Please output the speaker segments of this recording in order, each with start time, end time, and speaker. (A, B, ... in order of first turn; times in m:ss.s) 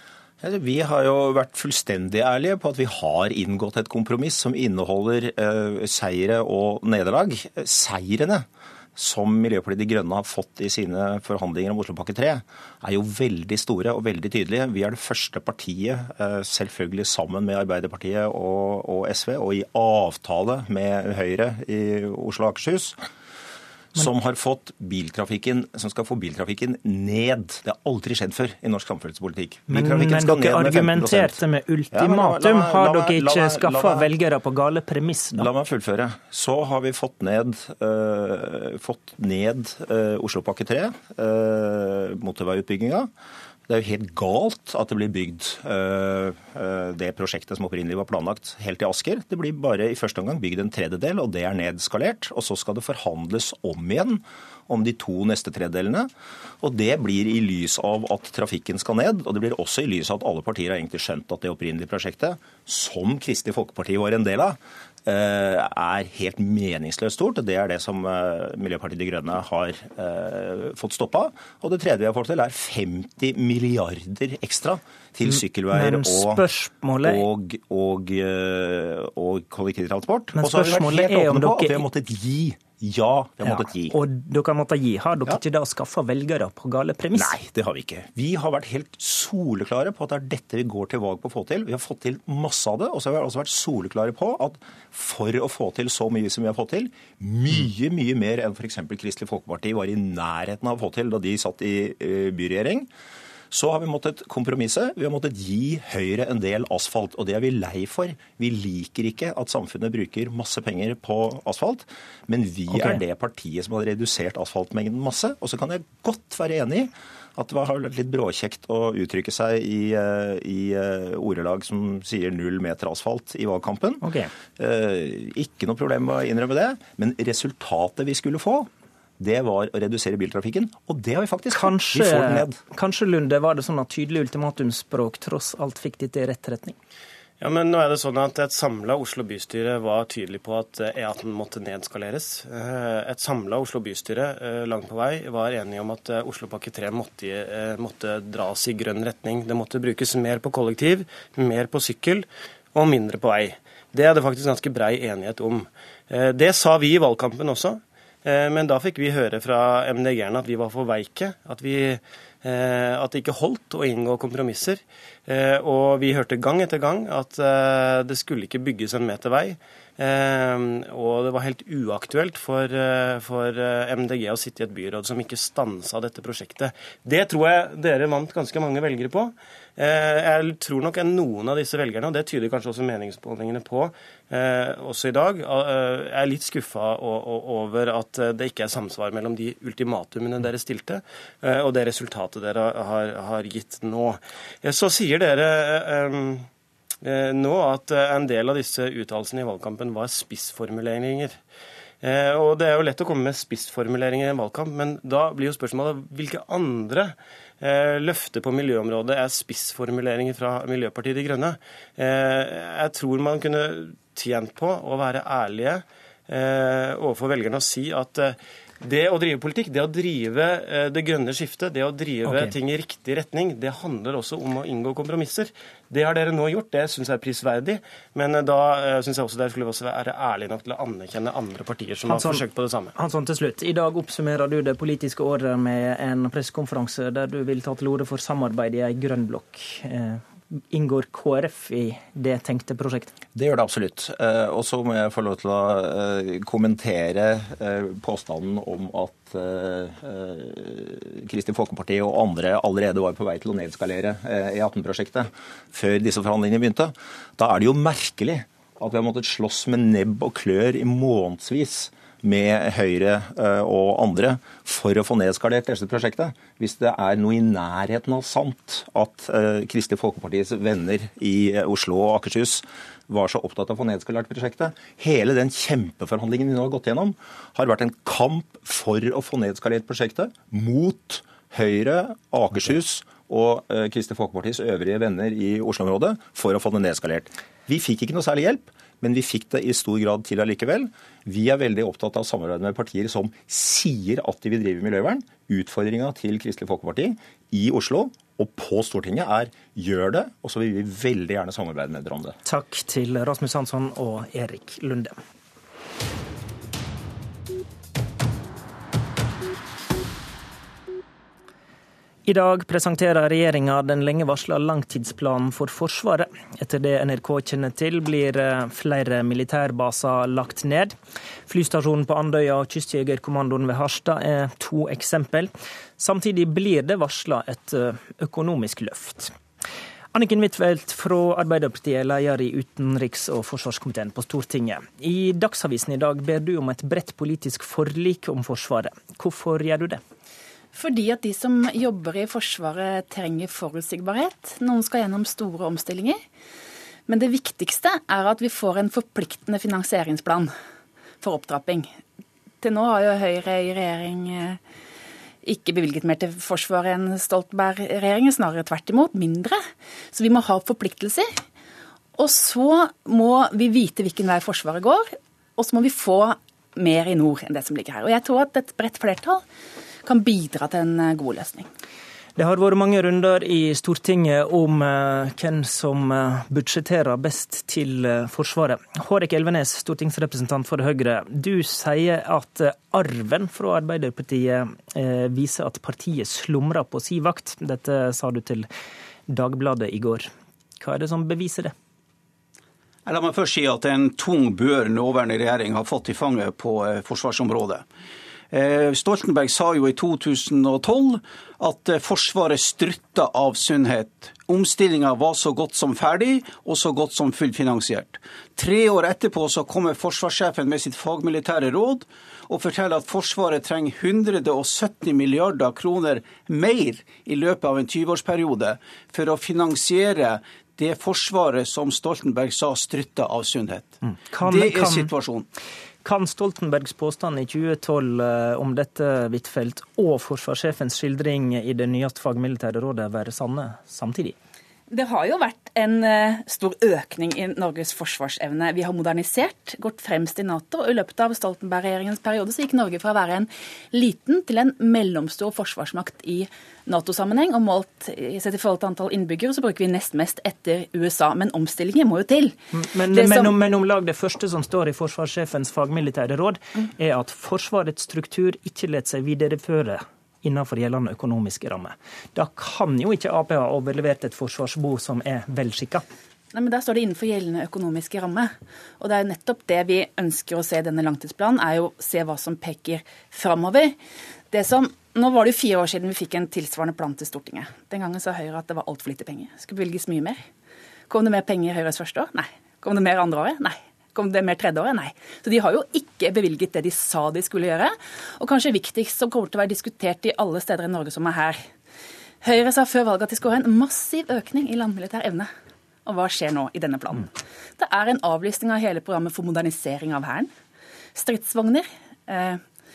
0:00.4-0:08.4 A
0:09.0-0:23.0 A
0:23.9-0:31.4 A
0:29.7-0:35.5 B
0:31.9-0:34.1 A
0:35.3-0:43.1 A
0:43.7-0:56.1 A
0:56.6-1:16.4 A
1:15.7-1:17.2 B
1:17.0-1:24.0 A
1:20.3-1:21.8 B
1:23.4-1:27.3 B
1:27.1-1:42.9 A
1:43.5-2:04.0 A
1:52.7-1:53.0 B
2:04.0-2:04.3 B
2:04.5-2:12.6 A
2:11.5-2:16.7 B
2:17.4-3:16.5 C
3:17.0-3:21.4 C
3:22.0-3:52.9 C
3:42.2-3:42.5 B
3:52.1-3:52.4 B
3:53.0-4:03.1 B
4:03.3-5:02.3 A
5:02.4-5:05.1 B
5:12.2-5:20.9 B
5:21.5-5:29.3 B
5:30.1-5:40.0 B
5:40.7-5:46.2 D
5:47.1-5:50.5 D
5:51.2-5:51.9 D
5:52.6-5:54.6 D
5:55.4-5:59.6 D
6:00.1-6:01.3 D
6:02.2-6:09.4 D
6:10.0-6:11.7 D
6:12.4-6:28.7 B
6:29.3-6:30.3 B
6:30.8-6:31.7 B
6:33.0-6:37.8 E
6:38.5-7:05.4 E
7:04.0-7:05.1 B
7:06.0-7:14.3 B
7:14.9-7:32.6 D
7:32.7-7:46.0 B
7:33.1-7:33.5 D
7:46.5-7:53.9 D
7:54.5-8:00.4 D
8:01.1-8:11.6 D
8:12.4-8:15.5 D
8:16.0-8:20.5 D
8:21.1-8:22.6 D